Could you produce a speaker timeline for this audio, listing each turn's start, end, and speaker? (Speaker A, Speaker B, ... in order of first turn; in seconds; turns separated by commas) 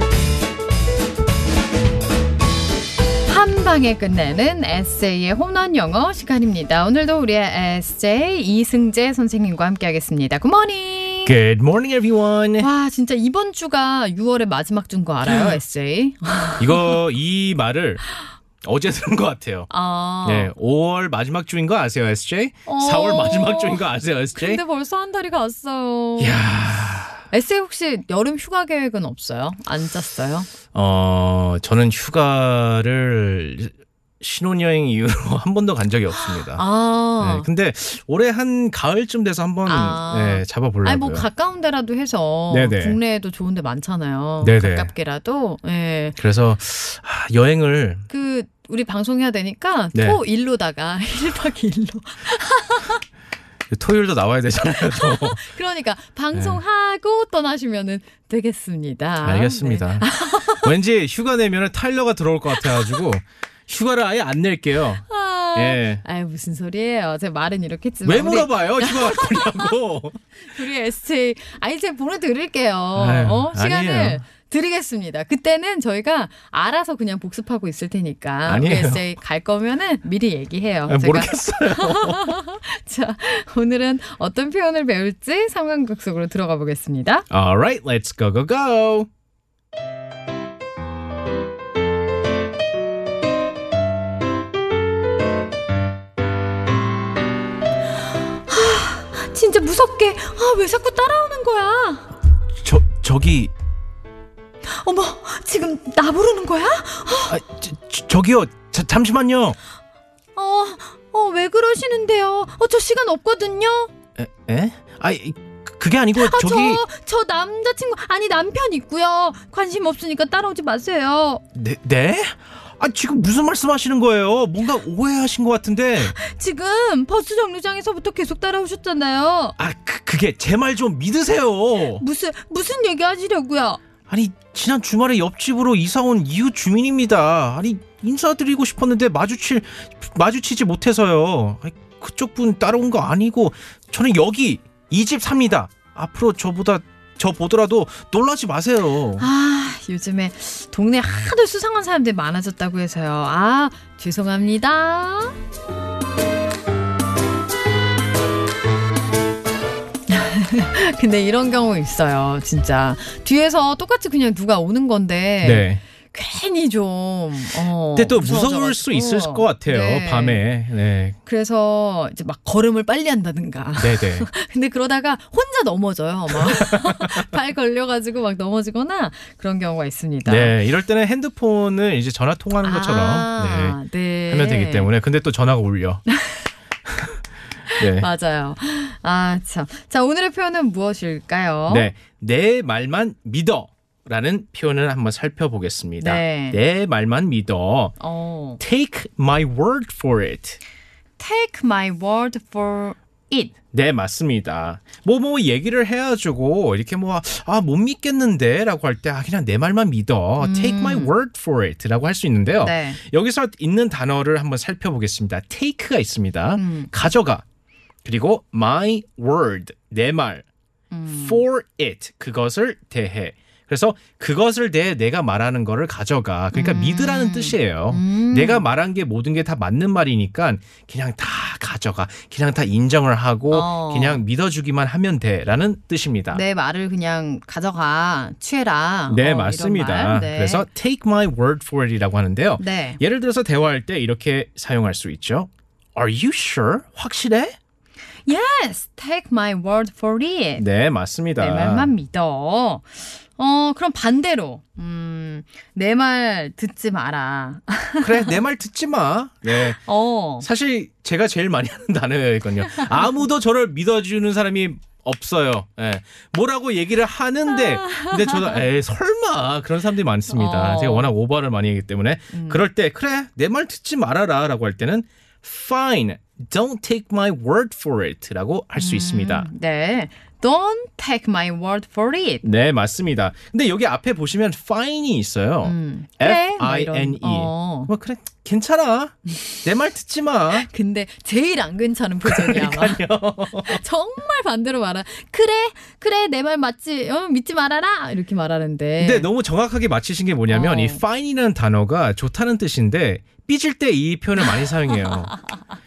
Speaker A: 3.3-11.4, Speaker B: 11.2-12.7, Speaker A: 12.6-17.0, Speaker B: 15.3-15.6, Speaker B: 16.6-18.0, Speaker B: 18.6-19.7, Speaker A: 19.7-20.5, Speaker B: 20.2-24.6, Speaker A: 22.7-26.4, Speaker B: 26.2-27.2, Speaker A: 27.3-30.5, Speaker B: 30.7-36.6, Speaker A: 36.1-37.5, Speaker B: 37.2-41.3, Speaker A: 39.7-46.2, Speaker B: 42.5-43.0, Speaker B: 44.4-44.9, Speaker B: 46.2-48.1, Speaker A: 48.1-53.0, Speaker B: 53.7-55.5, Speaker A: 54.9-60.7, Speaker B: 56.3-56.6, Speaker B: 59.2-66.0, Speaker A: 62.6-63.0, Speaker A: 65.0-69.8, Speaker B: 68.0-70.2, Speaker A: 70.4-87.3, Speaker B: 73.0-74.2, Speaker B: 78.5-79.0, Speaker B: 80.9-82.4, Speaker B: 87.3-89.1, Speaker A: 98.5-102.1, Speaker B: 102.6-103.5, Speaker A: 104.7-107.4, Speaker B: 107.3-109.6, Speaker A: 110.4-113.9, Speaker B: 114.2-116.8, Speaker A: 116.2-121.4, Speaker B: 121.5-126.2, Speaker A: 126.0-129.6, Speaker B: 129.6-132.0, Speaker A: 131.8-133.8, Speaker B: 134.1-149.3, Speaker A: 149.2-155.4, Speaker A: 160.1-170.4, Speaker B: 165.4-165.8, Speaker B: 167.9-171.2, Speaker A: 171.3-180.6, Speaker B: 173.8-174.3, Speaker B: 176.4-177.3, Speaker B: 180.3-186.0, Speaker A: 182.6-184.9, Speaker A: 186.1-186.4, Speaker A: 187.7-191.9, Speaker B: 187.8-188.1, Speaker B: 191.7-197.9, Speaker A: 196.0-196.6, Speaker A: 198.0-198.6, Speaker B: 198.6-200.6, Speaker A: 201.2-203.6, Speaker B: 203.7-217.4, Speaker A: 210.4-211.1, Speaker A: 212.6-213.0, Speaker A: 216.6-216.9, Speaker B: 218.0-220.5, Speaker A: 220.9-221.4, Speaker B: 221.2-236.4, Speaker A: 226.5-228.7, Speaker A: 233.5-234.2, Speaker A: 236.3-240.7, Speaker B: 239.1-247.6, Speaker A: 242.6-243.0, Speaker A: 248.3-250.6, Speaker B: 250.6-251.9, Speaker A: 251.4-258.4, Speaker B: 258.0-259.8, Speaker A: 259.5-260.5, Speaker B: 260.4-279.5, Speaker A: 262.7-263.1, Speaker A: 267.5-268.6, Speaker A: 270.3-271.1, Speaker A: 272.3-272.6, Speaker A: 278.8-282.4, Speaker B: 282.4-290.7, Speaker A: 285.6-287.9, Speaker A: 290.5-299.3, Speaker B: 292.2-293.8, Speaker B: 299.0-305.3, Speaker A: 300.5-301.0, Speaker A: 304.6-305.5